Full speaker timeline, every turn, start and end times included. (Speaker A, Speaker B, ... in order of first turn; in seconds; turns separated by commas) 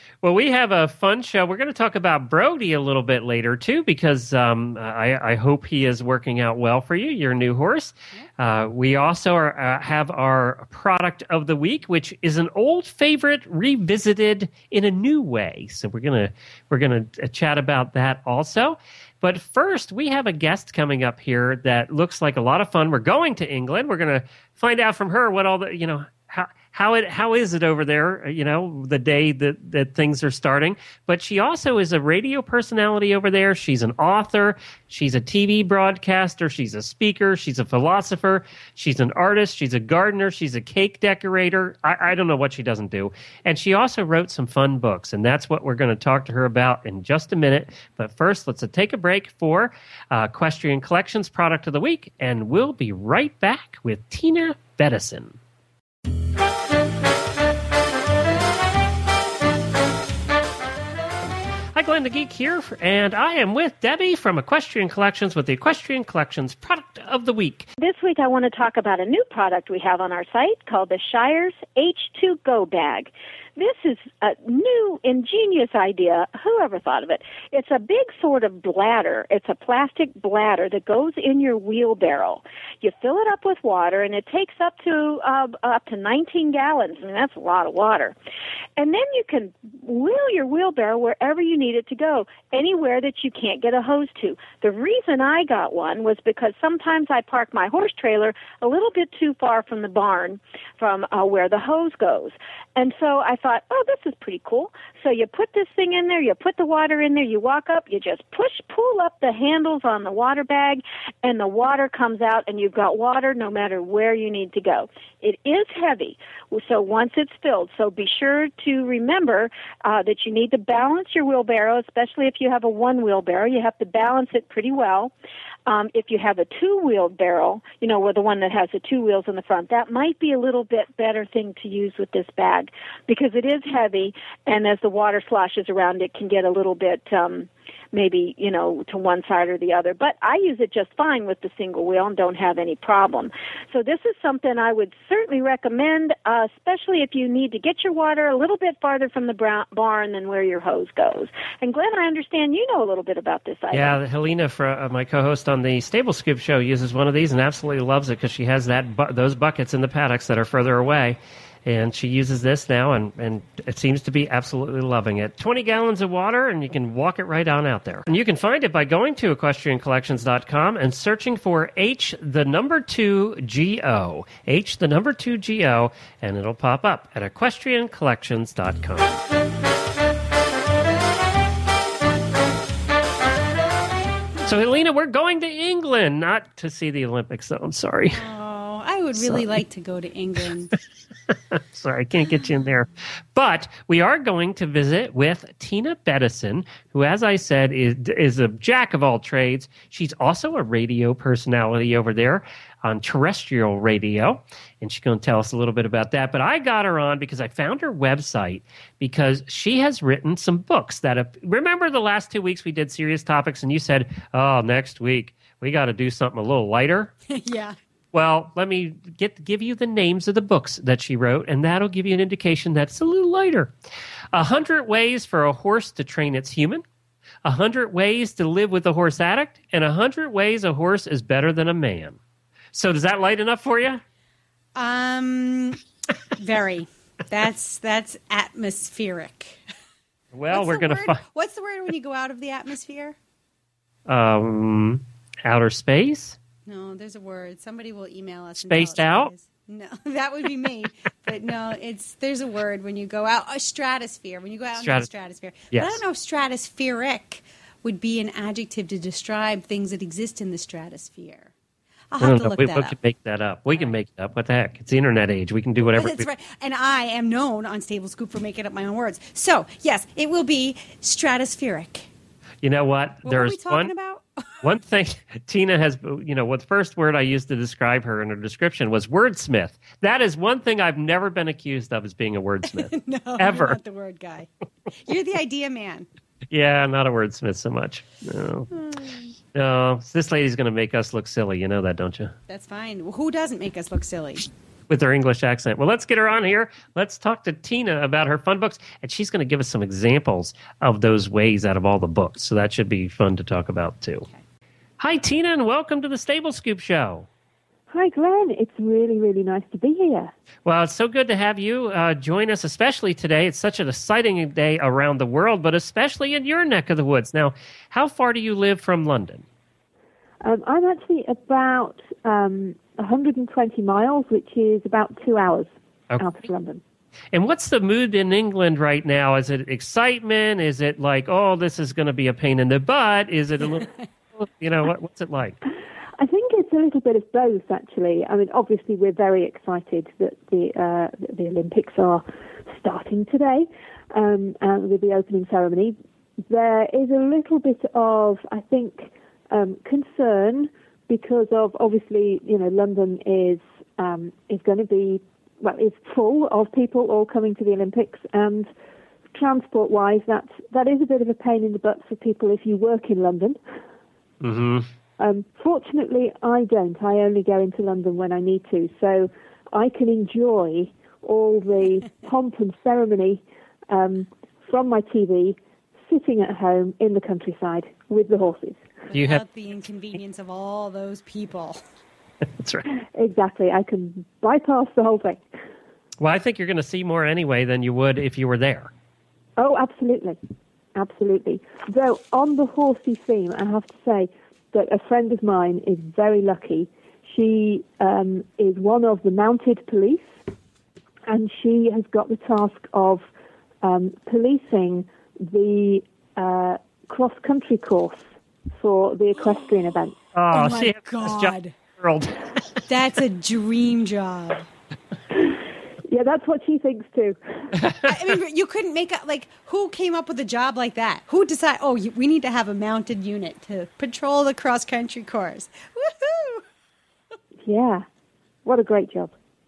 Speaker A: 0.2-55.4, Speaker A: 61.8-67.7, Speaker B: 67.8-88.2, Speaker B: 88.8-125.1, Speaker B: 125.7-154.0, Speaker A: 153.7-179.2, Speaker A: 184.4-188.2, Speaker C: 188.1-190.7, Speaker A: 191.5-217.1, Speaker C: 217.3-217.8, Speaker A: 218.1-223.7, Speaker A: 224.3-226.8, Speaker A: 227.4-232.2, Speaker A: 232.7-234.0, Speaker C: 234.8-239.6, Speaker A: 240.3-241.2, Speaker C: 240.5-243.2, Speaker A: 244.1-246.4, Speaker C: 246.7-261.5, Speaker A: 248.6-249.3, Speaker A: 254.8-255.1, Speaker A: 255.7-256.0, Speaker C: 262.1-262.9, Speaker A: 262.2-266.3, Speaker C: 265.8-272.1, Speaker A: 272.6-273.9, Speaker C: 273.2-274.6, Speaker A: 274.6-283.8, Speaker C: 282.7-286.1, Speaker A: 286.5-288.7, Speaker C: 288.7-289.3, Speaker A: 289.5-292.4, Speaker C: 292.5-294.5, Speaker A: 294.9-304.2, Speaker A: 305.0-307.3, Speaker D: 307.9-310.3, Speaker A: 310.6-319.4, Speaker D: 320.4-326.8, Speaker A: 327.3-335.6, Speaker D: 336.2-346.0, Speaker D: 346.5-358.7, Speaker D: 359.3-363.6, Speaker A: 364.4-364.9, Speaker D: 365.2-378.9, Speaker C: 379.1-381.8, Speaker A: 379.1-379.4, Speaker A: 382.6-382.8, Speaker D: 383.1-385.4, Speaker A: 386.2-388.9, Speaker D: 389.6-390.4, Speaker D: 390.9-400.3, Speaker D: 401.3-403.3, Speaker D: 403.8-408.2, Speaker D: 408.8-410.2, Speaker A: 410.3-412.9, Speaker C: 410.5-411.8, Speaker C: 412.9-414.7, Speaker D: 416.1-417.4, Speaker C: 418.0-426.6, Speaker D: 427.6-428.1, Speaker D: 428.6-429.3